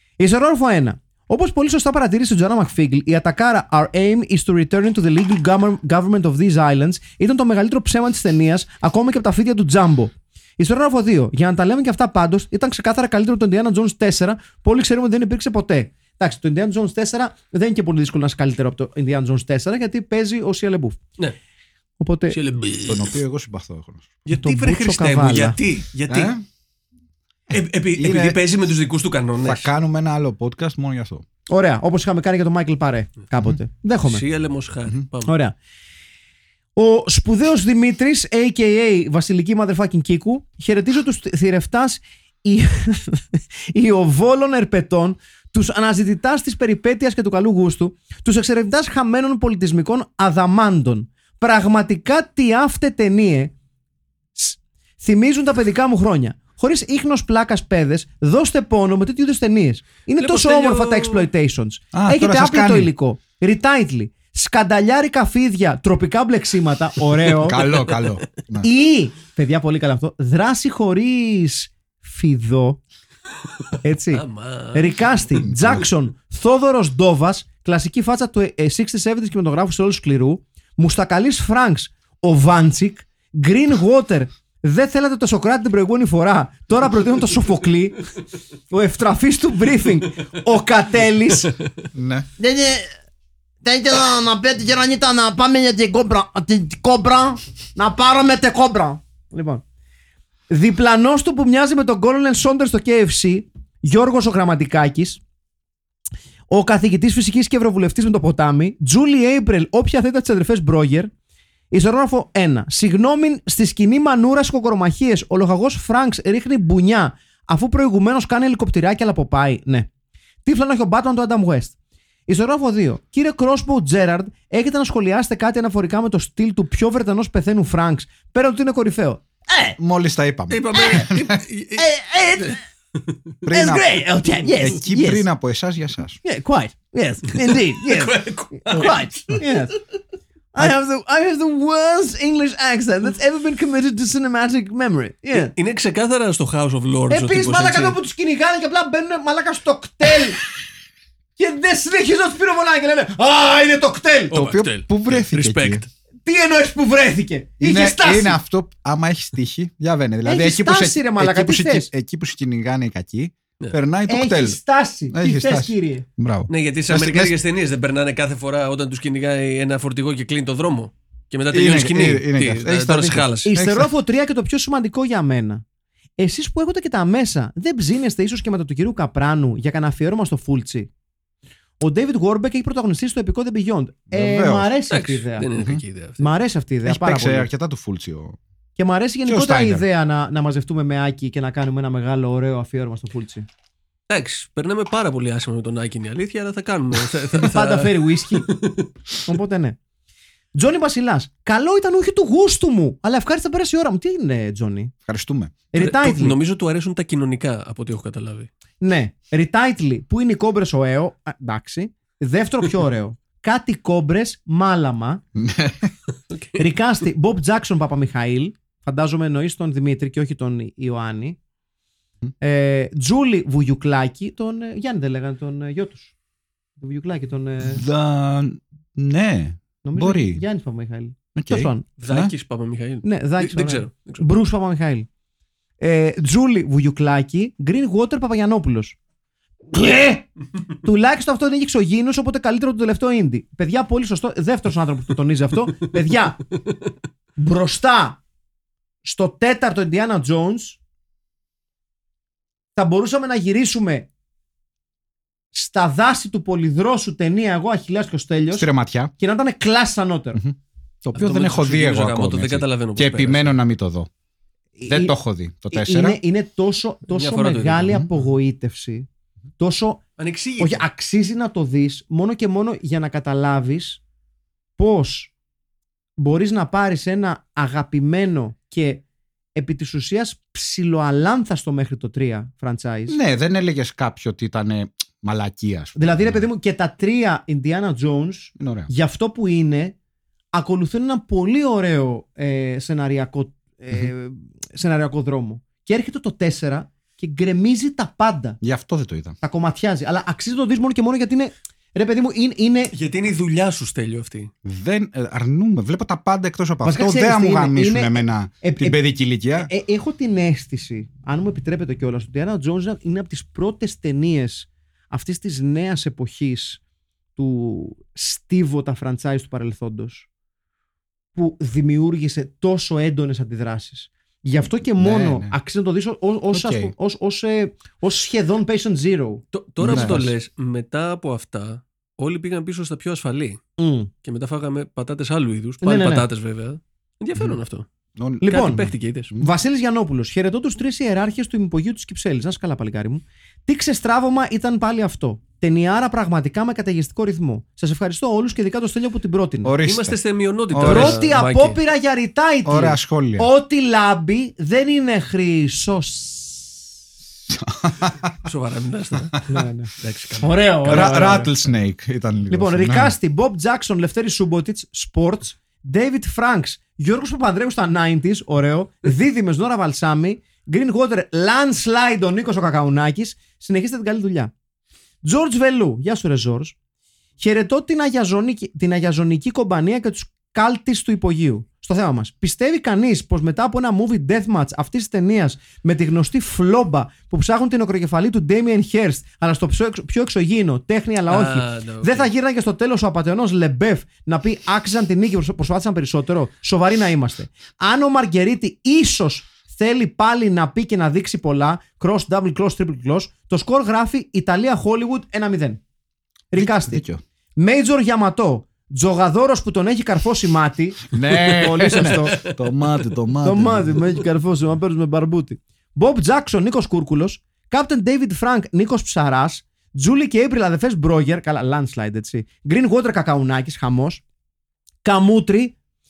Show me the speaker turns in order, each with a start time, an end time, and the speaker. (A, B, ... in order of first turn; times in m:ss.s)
0:00.2-0:21.0 A
0:22.0-0:22.4 A
0:22.3-0:23.2 B
0:22.8-0:24.1 C
0:24.3-0:26.3 B
0:24.3-0:25.6 A
0:26.1-0:26.4 C
0:27.5-0:28.4 C
0:27.5-0:29.7 B
0:29.4-0:31.2 C
0:31.5-0:34.2 A
0:34.0-0:35.3 B
0:35.2-0:35.6 A
0:36.8-0:53.5 A
0:54.4-1:07.6 A
1:00.2-1:01.3 B
1:01.9-1:02.9 C
1:07.4-1:08.7 C
1:08.6-1:12.8 A
1:13.8-1:28.0 A
1:14.1-1:15.1 B
1:15.4-1:15.9 C
1:28.7-1:31.5 A
1:31.9-1:32.3 C
1:32.4-1:32.9 A
1:33.6-1:39.6 A
1:40.5-1:45.2 A
1:46.5-1:51.1 A
1:51.7-1:59.9 A
2:00.4-2:01.8 A
2:02.3-2:09.8 A
2:09.8-2:11.4 C
2:10.5-2:11.9 B
2:11.8-2:12.6 A
2:13.4-2:16.2 C
2:13.5-2:15.3 A
2:16.2-2:19.8 A
2:17.5-2:19.4 B
2:20.5-2:25.5 A
2:25.3-2:28.0 B
2:27.1-2:30.4 A
2:31.4-2:34.3 A
2:34.3-2:35.8 C
2:34.3-2:35.9 B
2:36.2-2:38.4 A
2:37.6-2:44.6 C
2:40.2-2:41.9 A
2:44.1-2:46.0 A
2:45.1-2:47.4 C
2:46.5-2:53.6 B
2:51.5-2:53.9 C
2:53.4-2:55.6 A
2:56.2-3:00.9 A
3:01.8-3:05.5 A
3:04.1-3:04.7 C
3:04.9-3:06.3 B
3:05.6-3:05.8 C
3:06.2-3:07.5 A
3:06.8-3:08.4 C
3:08.8-3:13.5 A
3:09.3-3:09.8 C
3:14.1-3:18.9 B
3:17.3-3:18.5 A
3:19.2-3:19.8 A
3:20.6-3:24.9 A
3:25.1-3:25.6 C
3:25.7-3:26.4 A
3:25.8-3:28.5 B
3:28.8-3:35.2 A
3:35.4-3:35.9 C
3:36.3-3:36.6 B
3:36.6-3:41.4 A
3:42.4-3:46.1 A
3:46.8-3:47.8 A
3:47.6-3:50.4 C
3:49.8-3:51.9 A
3:51.4-3:52.3 C
3:52.0-3:54.2 B
3:53.0-3:55.1 A
3:55.8-3:59.0 A
3:59.7-4:00.3 A
4:00.8-4:06.4 A
4:07.4-4:08.2 A
4:09.0-4:10.8 A
4:12.8-4:14.1 A
4:15.5-4:20.4 A
4:18.5-4:19.1 C
4:20.4-4:24.1 C
4:21.1-4:23.6 B
4:24.8-4:25.2 A
4:24.9-4:26.2 C
4:25.7-4:29.1 A
4:27.1-4:28.0 B
4:29.6-4:30.0 A
4:30.2-4:30.8 B
4:30.6-4:34.0 A
4:34.8-4:35.3 A
4:36.2-4:39.0 A
4:39.6-4:43.2 A
4:43.1-4:46.4 C
4:46.0-4:50.0 A
4:48.6-4:48.9 C
4:50.5-4:58.6 A
4:58.6-4:59.4 C
4:59.4-5:02.9 A
5:02.9-5:04.5 B
5:04.6-5:09.7 C
5:06.8-5:09.0 A
5:09.6-5:16.8 A
5:17.4-5:20.3 A
5:21.4-5:30.3 A
5:25.0-5:25.5 C
5:26.5-5:26.9 C
5:29.5-5:33.6 B
5:29.8-5:30.3 C
5:33.8-5:34.1 A
5:34.2-5:37.9 B
5:35.8-5:36.3 A
5:38.2-5:39.5 C
5:38.4-5:38.8 A
5:38.4-5:39.3 B
5:39.4-5:49.8 A
5:49.6-5:50.2 C
5:49.8-5:51.8 B
5:50.7-5:51.3 C
5:50.8-5:56.8 A
5:52.6-5:53.5 C
5:57.5-5:58.3 C
5:58.4-6:01.6 B
5:59.5-5:59.9 A
6:00.4-6:01.5 A
6:00.9-6:03.2 C
6:02.5-6:14.5 A
6:15.2-6:16.8 A
6:17.4-6:45.8 A
6:31.3-6:32.3 B
6:46.5-6:47.0 A
6:46.6-6:47.2 C
6:47.6-6:52.4 A
6:51.1-6:54.1 C
6:53.4-7:04.2 A
7:05.0-7:05.8 A